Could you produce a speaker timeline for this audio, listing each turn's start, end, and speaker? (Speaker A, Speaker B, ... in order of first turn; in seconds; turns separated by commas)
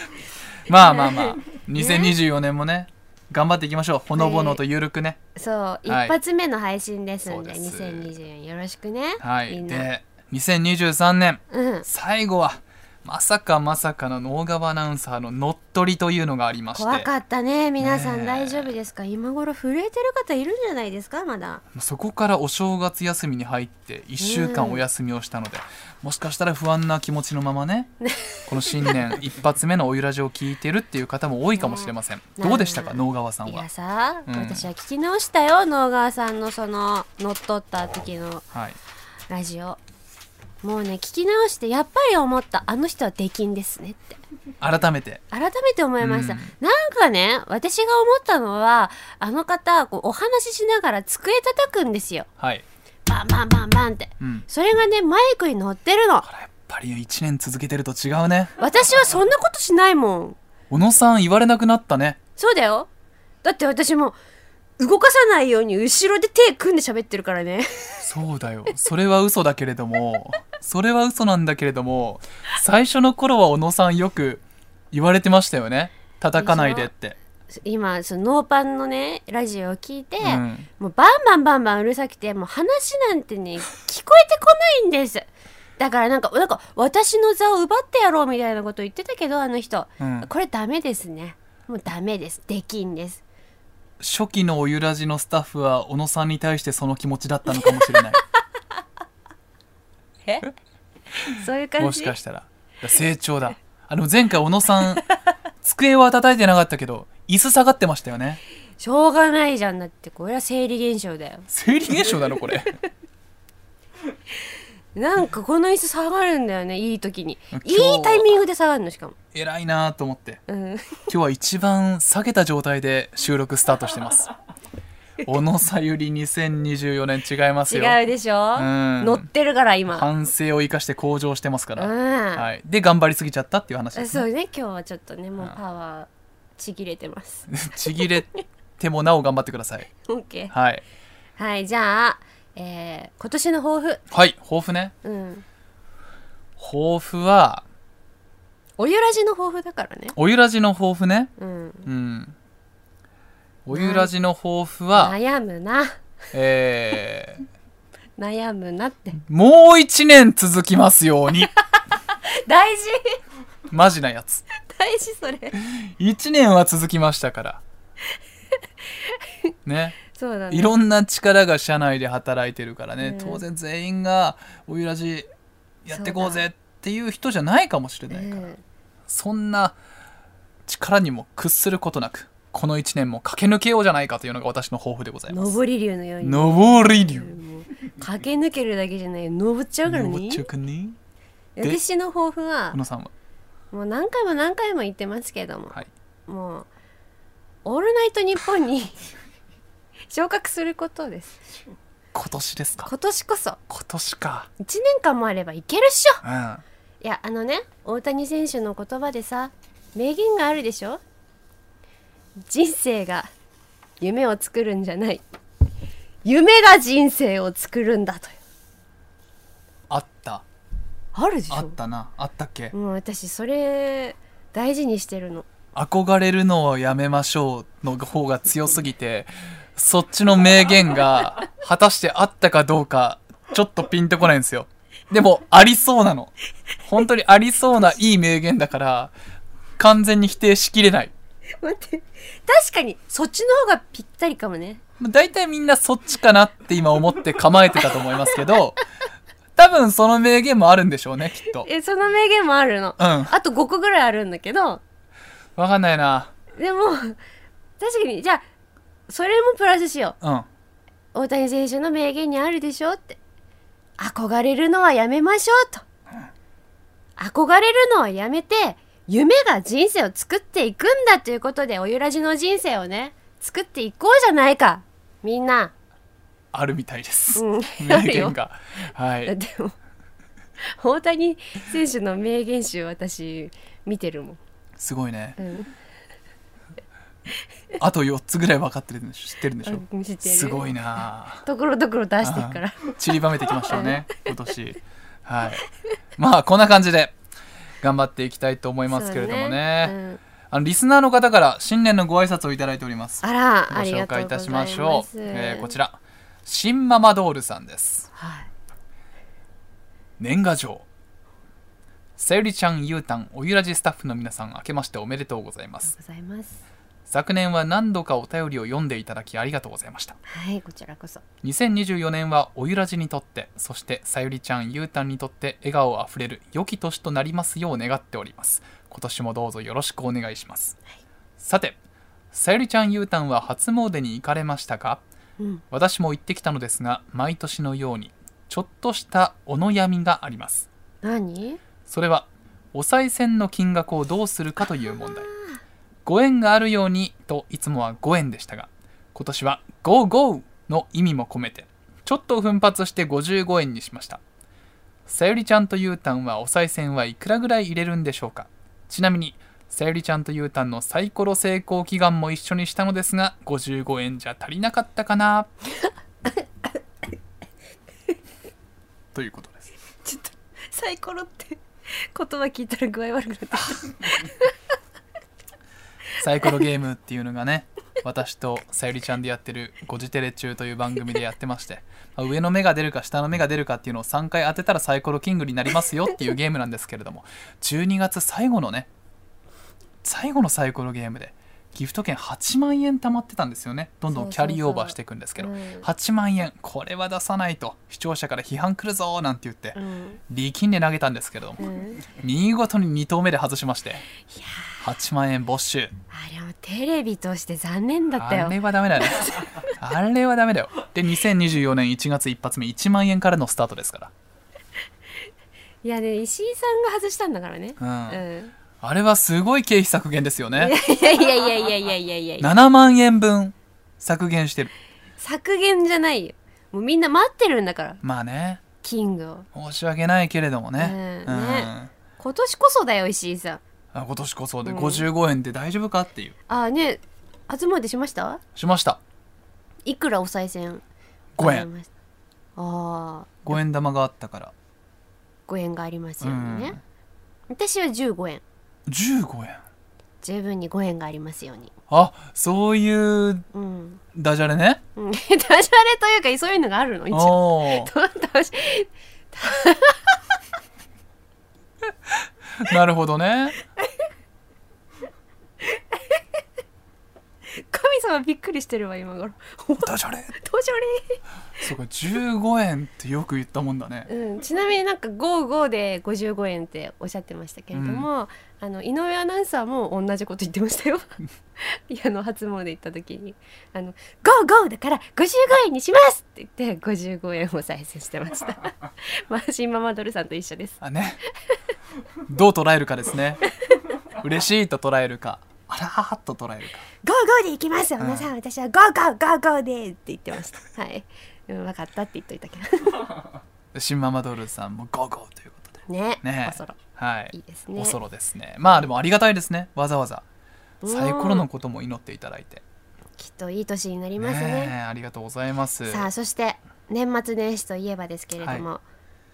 Speaker A: 0.7-5.2, Speaker B: 0.8-2.1, Speaker B: 4.1-4.6, Speaker B: 5.3-9.9, Speaker A: 5.8-6.2, Speaker A: 7.2-8.1, Speaker A: 9.2-17.1, Speaker B: 11.5-11.8, Speaker B: 16.7-21.6, Speaker A: 17.8-18.7, Speaker A: 21.7-27.9, Speaker B: 24.2-24.8, Speaker B: 28.0-29.0, Speaker A: 28.5-33.7, Speaker B: 31.6-38.5, Speaker A: 34.3-34.7, Speaker A: 38.5-38.8, Speaker B: 39.3-39.8, Speaker B: 40.6-44.2, Speaker A: 44.6-45.2, Speaker B: 45.3-52.3, Speaker A: 46.0-46.5, Speaker A: 52.4-52.6, Speaker B: 53.1-56.2, Speaker A: 54.2-54.5, Speaker A: 56.2-58.5, Speaker B: 58.6-60.4, Speaker A: 60.7-62.2, Speaker B: 62.4-62.9, Speaker B: 63.4-64.2, Speaker B: 64.8-68.0, Speaker A: 68.0-77.2, Speaker B: 76.3-76.9, Speaker B: 77.5-85.3, Speaker A: 80.2-80.7, Speaker B: 85.8-93.2, Speaker A: 90.0-90.3, Speaker A: 94.0-98.2, Speaker B: 100.2-100.5, Speaker B: 101.2-102.1, Speaker A: 101.8-105.1, Speaker A: 105.6-108.4, Speaker B: 108.8-111.5, Speaker A: 111.5-112.7, Speaker B: 114.9-119.2, Speaker A: 117.5-118.3, Speaker A: 119.3-120.4, Speaker B: 120.5-121.1, Speaker A: 121.1-124.3, Speaker A: 125.2-128.0, Speaker B: 127.7-130.1, Speaker A: 128.6-129.3, Speaker A: 129.9-134.2, Speaker B: 131.8-132.5, Speaker B: 133.9-138.4, Speaker A: 137.5-139.9, Speaker B: 140.0-140.5, Speaker A: 140.5-140.8, Speaker B: 141.4-144.0, Speaker A: 144.1-144.9, Speaker B: 145.0-145.4, Speaker A: 146.6-147.6, Speaker B: 148.8-150.1, Speaker A: 150.1-151.3, Speaker B: 151.4-151.9, Speaker A: 151.8-152.3, Speaker A: 153.7-155.1, Speaker B: 153.7-154.1, Speaker B: 154.9-156.0, Speaker A: 156.3-157.4, Speaker B: 158.2-159.2, Speaker A: 159.2-161.5, Speaker B: 162.2-163.2, Speaker A: 163.7-164.4, Speaker B: 164.6-165.6, Speaker A: 165.5-167.6, Speaker B: 169.0-169.5, Speaker A: 169.6-170.0, Speaker B: 170.0-170.7, Speaker A: 170.5-175.3, Speaker B: 173.0-173.4, Speaker A: 175.8-178.5, Speaker B: 175.9-176.4, Speaker B: 178.1-178.6, Speaker A: 179.1-179.8, Speaker A: 180.7-185.6, Speaker B: 185.3-190.5, Speaker A: 186.2-187.3, Speaker A: 189.8-191.0, Speaker B: 191.6-192.8, Speaker A: 192.7-193.1, Speaker B: 193.7-196.7, Speaker B: 197.6-199.0, Speaker B: 200.1-201.4, Speaker A: 202.1-202.9, Speaker B: 202.8-203.6, Speaker A: 203.7-204.5, Speaker B: 204.6-206.2, Speaker A: 206.2-206.6, Speaker B: 207.0-211.0, Speaker B: 212.4-213.3, Speaker B: 214.0-215.2, Speaker B: 216.2-218.3, Speaker A: 219.9-220.4, Speaker B: 221.1-221.8, Speaker A: 221.5-222.7, Speaker B: 222.7-225.5, Speaker A: 225.7-236.3, Speaker A: 236.8-239.1, Speaker A: 239.8-241.1, Speaker B: 241.6-244.8, Speaker A: 245.0-248.8, Speaker A: 249.5-251.7, Speaker B: 251.6-254.8, Speaker A: 253.0-253.3, Speaker A: 255.6-256.3, Speaker B: 256.6-257.2, Speaker B: 257.8-258.4, Speaker B: 259.1-260.2, Speaker A: 260.2-260.5, Speaker B: 261.1-263.2, Speaker B: 264.0-265.8, Speaker B: 267.2-275.7, Speaker A: 276.5-279.3, Speaker B: 277.3-278.3, Speaker B: 279.2-279.7, Speaker B: 280.6-284.4, Speaker A: 284.8-285.4, Speaker B: 285.4-285.7, Speaker A: 287.8-291.4, Speaker B: 289.6-290.7, Speaker B: 291.4-292.9, Speaker A: 292.2-295.6, Speaker B: 293.7-294.0, Speaker A: 296.2-297.1, Speaker A: 297.8-299.9, Speaker B: 298.9-300.2, Speaker A: 300.5-308.1, Speaker B: 303.2-305.7, Speaker B: 308.1-308.5, Speaker A: 310.2-310.9, Speaker A: 312.2-315.9, Speaker B: 315.9-316.6, Speaker A: 317.1-320.2, Speaker B: 320.3-321.2, Speaker A: 321.4-330.8, Speaker A: 331.4-331.8, Speaker A: 332.3-335.0, Speaker A: 335.7-340.7, Speaker B: 341.0-341.6, Speaker A: 341.9-345.3, Speaker A: 346.1-354.2, Speaker A: 355.1-365.5, Speaker B: 366.2-366.8, Speaker A: 369.1-369.7, Speaker B: 370.0-371.6, Speaker B: 372.1-374.5, Speaker A: 376.2-388.9, Speaker A: 390.0-404.0, Speaker B: 394.1-395.9, Speaker B: 399.7-400.2, Speaker B: 401.6-402.1, Speaker B: 404.3-404.8, Speaker A: 404.8-405.9, Speaker B: 406.1-409.5, Speaker A: 408.2-414.1, Speaker B: 415.8-418.5, Speaker A: 417.8-418.2, Speaker A: 418.8-420.8, Speaker B: 420.6-422.5, Speaker A: 422.4-424.7, Speaker B: 425.2-428.0, Speaker A: 428.0-428.6, Speaker B: 428.8-429.5, Speaker A: 429.5-431.9, Speaker B: 430.8-433.6, Speaker A: 433.9-436.3, Speaker B: 434.6-435.1, Speaker B: 436.5-438.4, Speaker A: 438.5-439.0, Speaker B: 439.8-440.8, Speaker A: 441.4-441.7, Speaker B: 441.4-441.9, Speaker B: 442.6-443.6, Speaker A: 443.4-444.5, Speaker B: 445.5-446.8, Speaker A: 446.2-446.8, Speaker B: 447.5-448.4, Speaker A: 448.9-449.6, Speaker B: 450.2-451.7, Speaker A: 451.9-453.5, Speaker B: 453.5-454.0, Speaker A: 454.1-454.8, Speaker B: 454.9-460.1, Speaker A: 457.1-457.9, Speaker A: 462.1-463.6, Speaker B: 465.6-466.2, Speaker B: 467.6-471.2, Speaker A: 469.8-470.3, Speaker A: 471.6-474.1, Speaker B: 474.1-490.8, Speaker A: 477.7-478.1, Speaker A: 490.8-491.2, Speaker A: 492.2-493.4, Speaker A: 494.1-496.8, Speaker B: 497.0-503.0, Speaker A: 498.0-498.3, Speaker A: 503.7-510.2, Speaker B: 505.9-506.8, Speaker B: 507.3-508.0, Speaker B: 510.8-511.4, Speaker A: 510.8-512.6, Speaker B: 513.2-514.7, Speaker A: 514.2-516.1, Speaker B: 515.9-518.8, Speaker A: 518.4-518.6